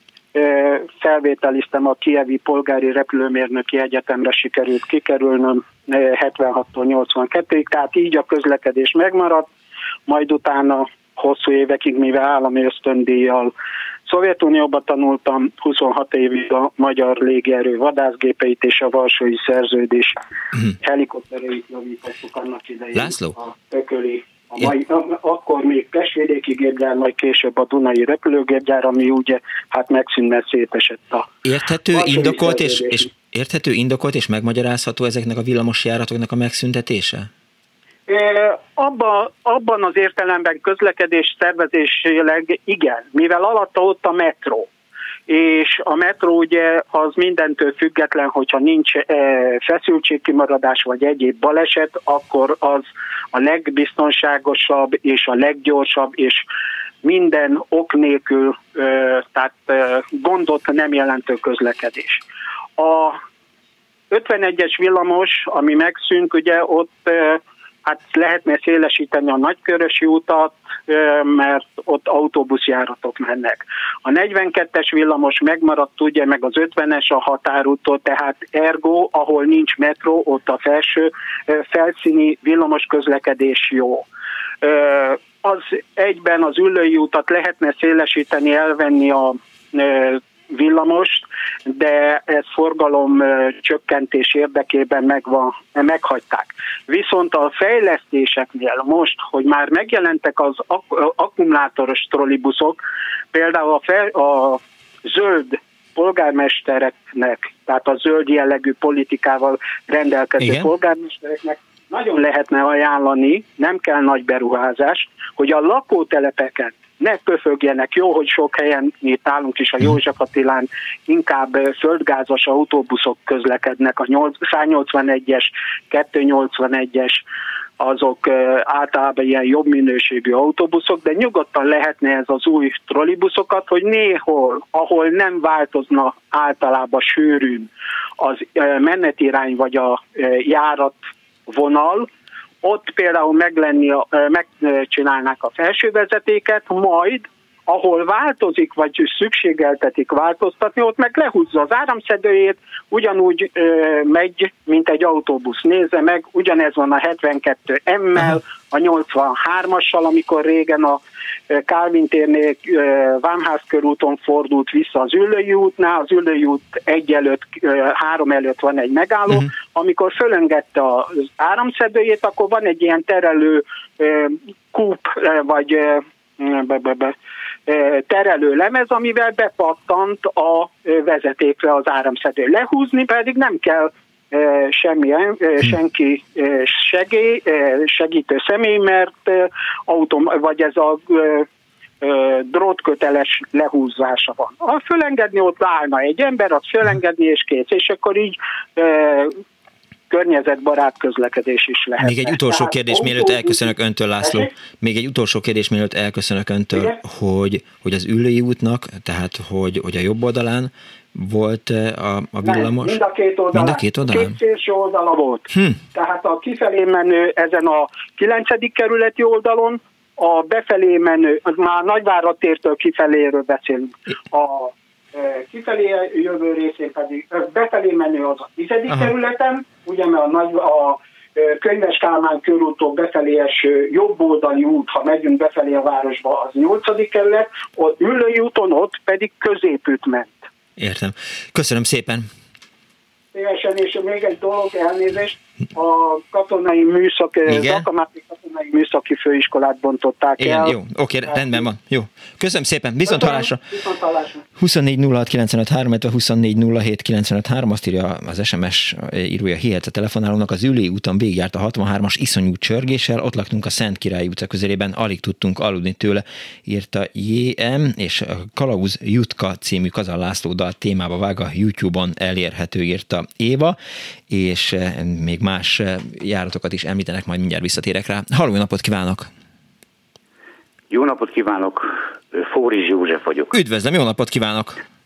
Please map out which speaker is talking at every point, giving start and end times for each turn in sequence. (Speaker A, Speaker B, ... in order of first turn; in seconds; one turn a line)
Speaker A: 0.3-9.5
Speaker A: 10.1-13.5
Speaker A: 14.1-20.2
Speaker A: 20.8-31.3
Speaker B: 22.9-23.4
Speaker B: 31.4-37.3
Speaker A: 31.9-33.1
Speaker A: 38.1-44.7
Speaker A: 45.3-56.4
Speaker A: 57.0-62.2
Speaker A: 62.8-63.2
Speaker A: 64.1-84.0
Speaker A: 84.6-102.8
Speaker A: 103.3-127.2
Speaker B: 110.4-110.7
Speaker A: 127.8-142.1
Speaker A: 142.6-177.1
Speaker A: 177.7-191.4
Speaker A: 192.0-199.4
Speaker A: 200.1-204.5
Speaker B: 202.0-213.0
Speaker A: 212.4-240.4
Speaker B: 213.5-214.3
Speaker B: 215.5-215.8
Speaker B: 240.8-242.3
Speaker A: 243.3-250.7
Speaker B: 247.4-247.8
Speaker B: 250.4-253.6
Speaker A: 251.3-251.6
Speaker A: 253.1-254.4
Speaker B: 254.6-273.8
Speaker B: 274.3-279.3
Speaker C: 280.9-283.5
Speaker B: 283.5-284.8